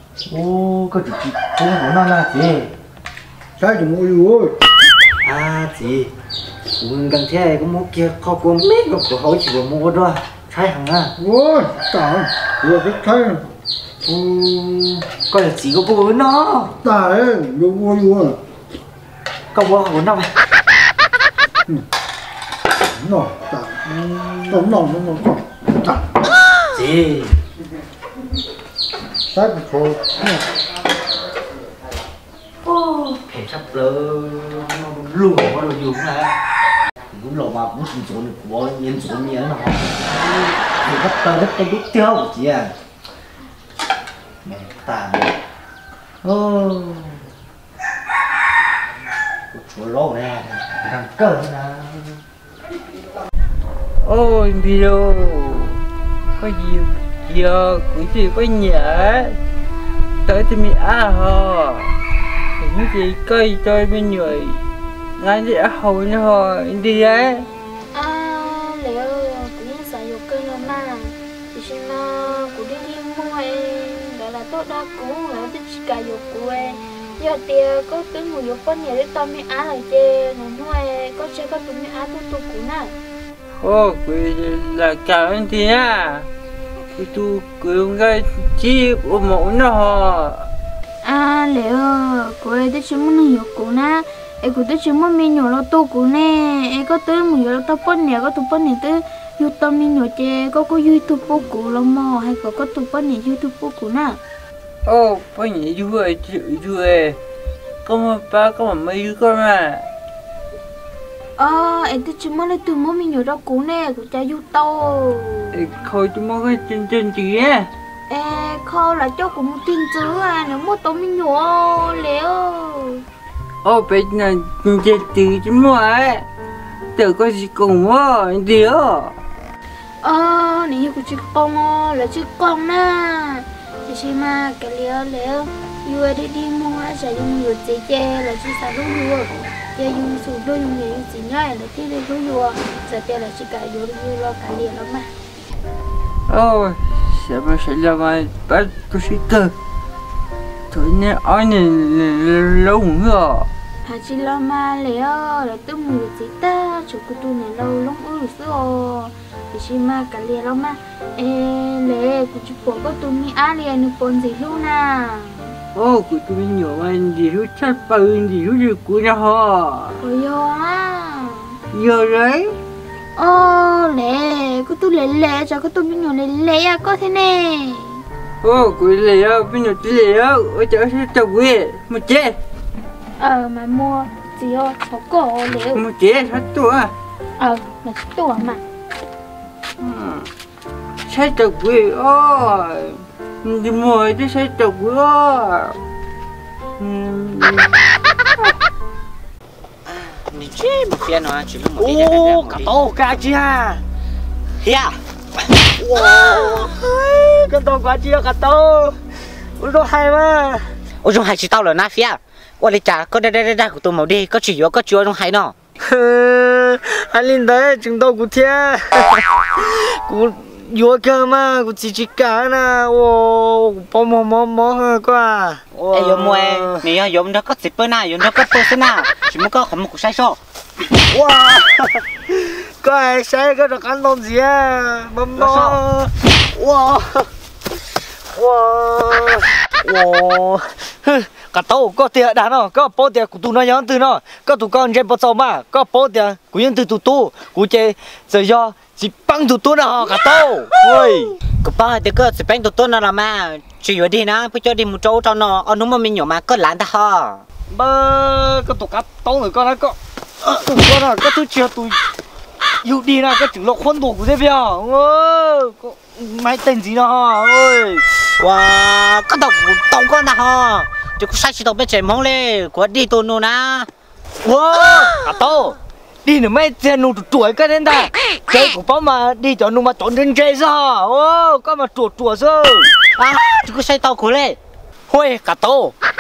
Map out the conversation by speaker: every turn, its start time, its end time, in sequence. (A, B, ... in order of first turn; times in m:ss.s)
0:00.3-0:02.7 A
0:03.6-0:04.6 B
0:05.2-0:06.1 A
0:06.8-0:11.2 A
0:11.3-0:13.4 B
0:14.1-0:16.8 A
0:16.9-0:18.4 B
0:19.5-0:20.3 A
0:23.1-0:23.6 B
0:23.8-0:25.0 A
0:24.9-0:25.4 B
0:26.7-0:27.4 A
0:29.3-0:30.4 B
0:32.7-0:36.4 A
0:37.1-0:42.7 A
0:44.4-0:45.4 A
0:46.2-0:47.2 A
0:49.5-0:52.2 A
0:54.0-0:55.8 C
0:56.4-0:59.4 C
1:00.3-1:01.9 C
1:02.6-1:04.6 C
1:05.2-1:07.5 C
1:07.9-1:23.0 D
1:23.6-1:26.3 C
1:27.0-1:30.5 C
1:31.0-1:44.2 D
1:44.9-1:47.2 C
1:47.8-1:49.9 C
1:51.4-1:55.6 D
1:55.5-1:57.7 C
1:58.1-2:03.0 D
2:03.6-2:06.3 C
2:07.0-2:09.2 C
2:10.0-2:25.1 D
2:26.3-2:29.5 C
2:30.7-2:33.5 C
2:33.8-2:45.6 D
2:45.7-2:50.0 C
2:50.0-2:51.6 D
2:51.7-2:52.6 C
2:53.2-2:58.0 D
2:58.4-3:02.4 C
3:03.2-3:05.9 D
3:05.7-3:06.9 C
3:07.4-3:08.6 D
3:09.8-3:10.3 C
3:11.1-3:15.8 C
3:16.8-3:17.7 C
3:19.9-3:22.8 E
3:21.8-3:23.8 A
3:24.6-3:25.0 E
3:25.8-3:29.0 A
3:29.6-3:30.7 A
3:31.0-3:35.5 E
3:35.8-3:46.9 A
3:45.9-3:50.4 E
3:51.1-3:57.3 A
3:55.4-3:55.8 E
3:58.3-4:11.4 A
4:11.6-4:17.4 E
4:17.7-4:22.0 A
4:22.8-4:28.0 A
4:28.4-4:33.9 E
4:34.4-4:42.9 A
4:43.2-4:44.6 E
4:45.1-4:45.9 A